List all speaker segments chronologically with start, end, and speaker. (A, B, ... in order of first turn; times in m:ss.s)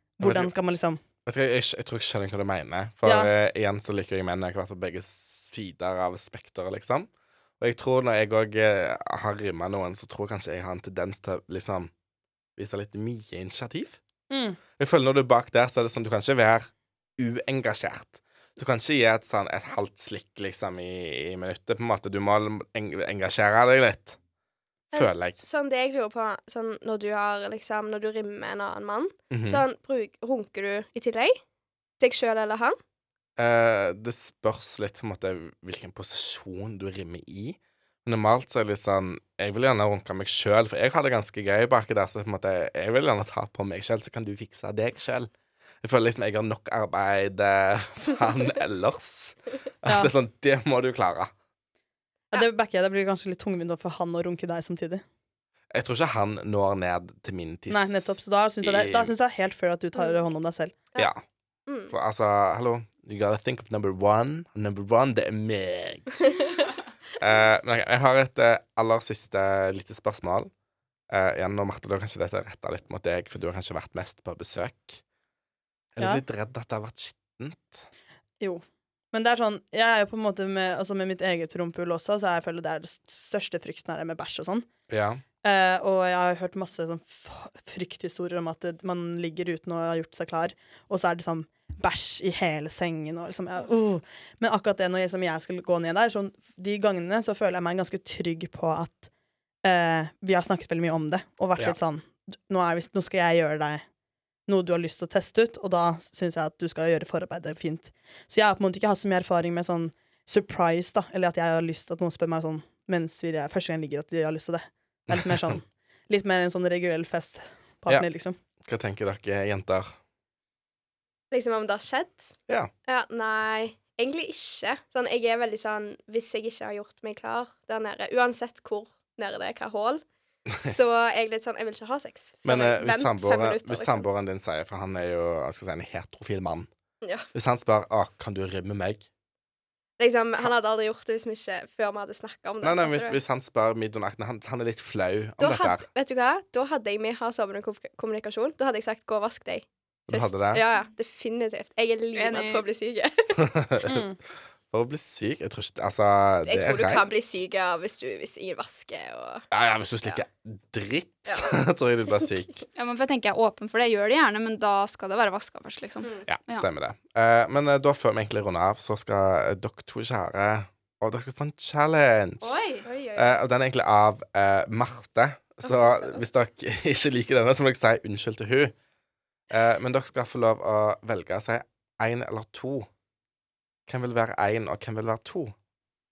0:00.2-0:01.0 A
0:00.2-0:00.5 B
0:01.2-0:07.1 B
0:03.0-0:03.3 A
0:07.6-0:11.9 B
0:12.6-0:14.0 B
0:14.3-0:14.6 A
0:14.8-0:24.2 B
0:24.9-0:25.4 B
0:24.9-0:31.4 C
0:29.3-0:29.6 B
0:32.0-0:32.8 C
0:33.4-0:45.3 B
0:45.8-0:51.3 B
0:49.8-0:50.1 A
0:52.3-0:55.0 A
0:55.7-0:59.1 B
0:57.7-1:00.8 A
1:01.7-1:01.9 C
1:01.9-1:06.2 B
1:07.2-1:10.5 B
1:11.1-1:15.0 B
1:15.9-1:17.9 B
1:18.4-1:24.7 A
1:24.9-1:25.2 B
1:25.4-1:39.1 A
1:39.6-1:43.8 A
1:44.5-1:58.4 A
1:55.1-1:55.6 B
1:58.6-1:59.9 B
2:01.3-2:02.3 C
2:02.9-2:10.0 C
2:10.6-2:14.1 C
2:12.4-2:16.7 B
2:17.3-2:19.0 B
2:20.0-2:23.2 C
2:22.6-2:25.8 B
2:25.4-2:33.4 C
2:30.1-2:30.6 B
2:32.2-2:32.6 D
2:33.4-2:34.1 B
2:33.9-2:34.1 A
2:34.7-2:37.0 B
2:36.4-2:39.4 C
2:39.5-2:42.6 B
2:41.3-2:41.5 C
2:42.8-2:46.6 D
2:46.3-2:52.5 B
2:52.4-2:52.8 D
2:52.8-2:53.4 C
2:53.2-2:58.7 B
2:55.6-2:56.2 C
2:59.5-3:02.9 B
3:03.9-3:05.5 B